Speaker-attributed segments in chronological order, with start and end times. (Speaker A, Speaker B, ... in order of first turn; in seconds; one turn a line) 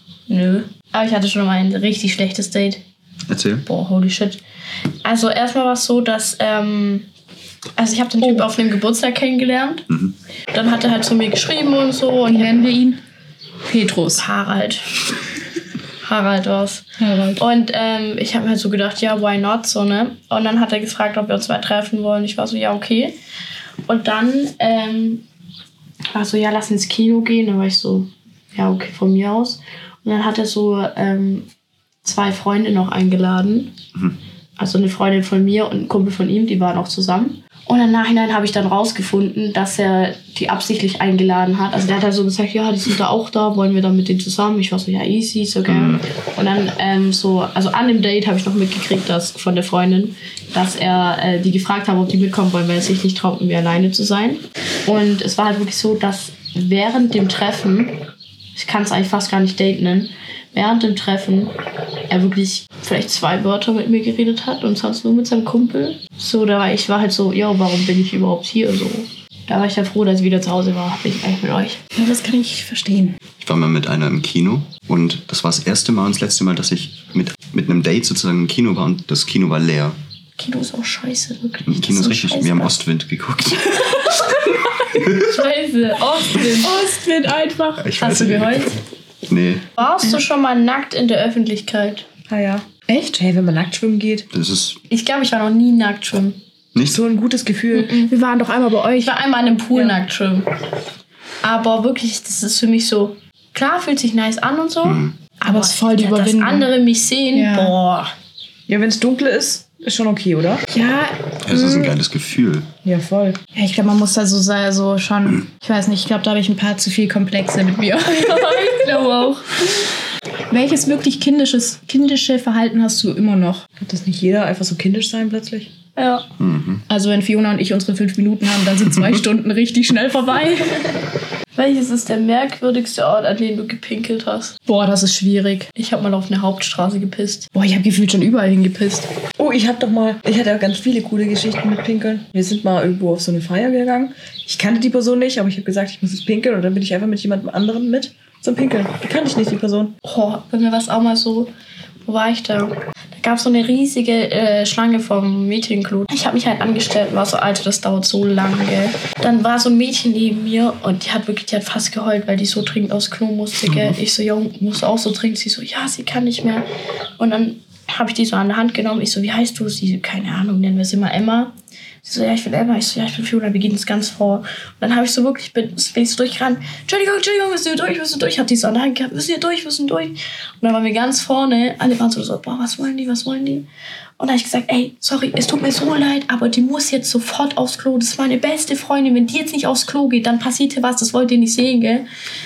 Speaker A: 0.3-2.8
Speaker B: 3.3-3.6
Speaker A: 3.6-4.4
Speaker A: 5.0-7.1
Speaker A: 7.8-9.8
Speaker C: 8.2-8.4
Speaker A: 10.5-12.7
Speaker C: 12.2-13.0
Speaker C: 13.6-14.2
Speaker A: 14.2-15.0
Speaker A: 16.0-16.9
Speaker C: 17.0-17.4
Speaker A: 17.4-23.1
Speaker A: 23.9-25.2
Speaker A: 26.1-31.5
Speaker A: 32.0-33.7
Speaker A: 34.6-58.0
Speaker B: 45.6-46.0
Speaker A: 58.5-61.5
Speaker A: 62.1-71.8
Speaker C: 72.0-73.2
Speaker B: 73.4-80.0
Speaker A: 80.4-82.7
Speaker B: 81.6-84.1
Speaker A: 85.1-86.7
Speaker C: 86.6-87.9
Speaker B: 87.8-88.7
Speaker A: 88.0-88.7
Speaker B: 89.3-89.6
Speaker A: 89.8-92.0
Speaker D: 92.3-94.2
Speaker C: 92.9-93.2
Speaker B: 94.3-94.8
Speaker A: 94.9-96.4
Speaker B: 96.7-97.0
Speaker D: 96.8-98.0
Speaker A: 97.7-98.1
Speaker C: 97.9-99.1
Speaker A: 99.0-100.5
Speaker A: 101.4-108.1
Speaker B: 104.8-105.1
Speaker C: 105.4-106.7
Speaker C: 107.3-107.7
Speaker D: 108.7-110.6
Speaker C: 110.7-112.0
Speaker B: 111.4-112.7
Speaker D: 112.8-113.4
Speaker C: 113.5-119.0
Speaker A: 118.3-119.5
Speaker C: 120.5-123.7
Speaker D: 123.8-125.7
Speaker A: 126.0-126.2
Speaker B: 126.4-126.8
Speaker C: 126.9-130.8
Speaker A: 131.5-134.5
Speaker C: 134.7-135.7
Speaker A: 135.8-137.5
Speaker C: 137.5-139.1
Speaker D: 139.4-149.9
Speaker A: 150.0-151.5
Speaker A: 152.0-166.7
Speaker A: 167.2-183.7
Speaker A: 184.2-192.1